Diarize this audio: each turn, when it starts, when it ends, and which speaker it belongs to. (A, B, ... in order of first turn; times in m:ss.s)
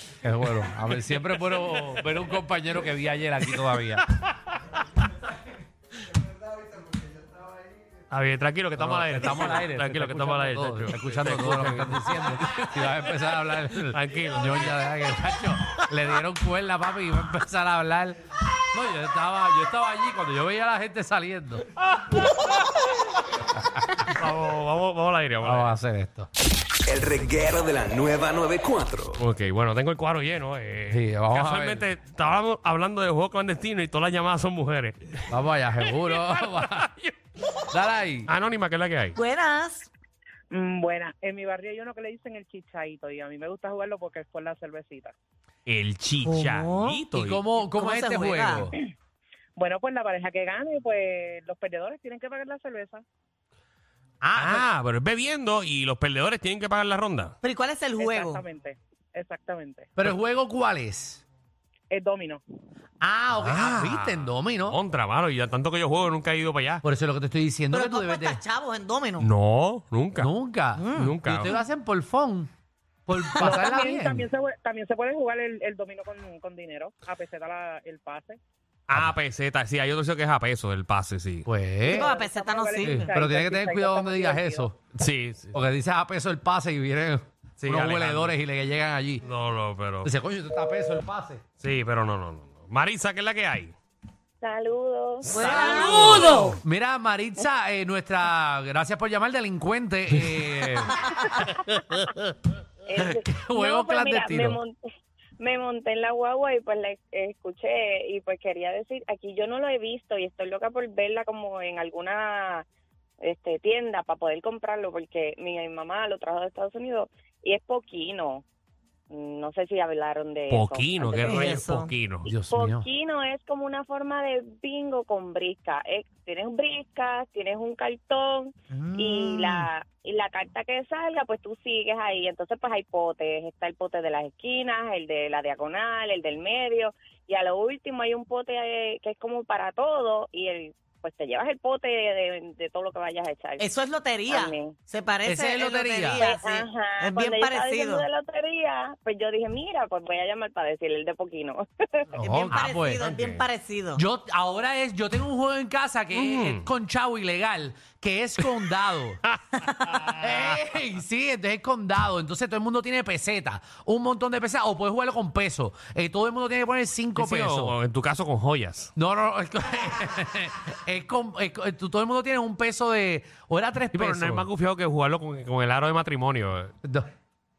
0:00.2-0:04.1 A
0:00.5-0:02.2 B
0:03.6-0:04.8 B
0:08.1-0:12.7 B
0:08.8-0:21.6 A
0:13.7-0:14.8 B
0:22.0-0:22.5 B
0:23.7-0:24.1 A
0:24.0-0:25.8 B
0:25.4-0:26.3 A
0:26.9-0:29.2 C
0:29.2-0:35.1 B
0:30.9-0:31.9 A
0:35.3-0:36.9 A
0:35.8-0:37.1 B
0:37.7-0:38.3 A
0:38.3-0:39.2 B
0:39.2-0:39.9 D
0:40.5-0:45.1 E
0:45.7-0:47.5 B
0:46.2-0:47.0 D
0:47.1-0:48.8 A
0:47.7-0:48.7 D
0:49.6-0:53.0 E
0:54.2-0:54.7 A
0:54.4-0:57.4 B
0:57.4-0:58.4 D
0:58.0-0:59.9 E
1:00.0-1:01.2 A
1:01.9-1:02.4 E
1:03.0-1:04.8 A
1:03.3-1:06.8 B
1:06.8-1:08.4 A
1:07.7-1:09.3 D
1:09.2-1:10.3 B
1:10.2-1:12.5 A
1:10.8-1:11.2 D
1:11.0-1:11.5 B
1:13.1-1:14.3 A
1:13.4-1:18.4 E
1:18.9-1:21.5 B
1:21.5-1:22.1 A
1:21.8-1:23.2 D
1:22.1-1:24.6 E
1:22.8-1:24.8 A
1:25.0-1:25.6 B
1:25.5-1:29.3 A
1:27.6-1:28.4 B
1:29.2-1:30.1 B
1:30.0-1:31.4 A
1:31.6-1:33.8 B
1:34.4-1:36.0 F
1:35.3-1:41.6 A
1:35.3-1:36.6 D
1:42.8-1:52.6 F
1:43.0-1:44.6 A
1:53.2-1:58.4 F
1:59.1-2:01.4 F
2:00.5-2:02.3 B
2:01.2-2:01.9 D
2:02.3-2:23.7 F
2:02.3-2:02.9 A
2:08.7-2:09.7 D
2:23.6-2:28.1 D
2:24.3-2:24.8 F
2:25.2-2:26.3 A
2:26.1-2:32.1 F
2:32.1-2:33.1 A
2:32.2-2:34.0 D
2:32.5-2:33.4 B
2:34.0-2:39.2 A
2:36.1-2:36.6 B
2:39.6-2:40.3 B
2:40.1-2:47.8 A
2:47.2-2:48.9 B
2:49.0-2:54.5 A
2:53.9-2:56.7 B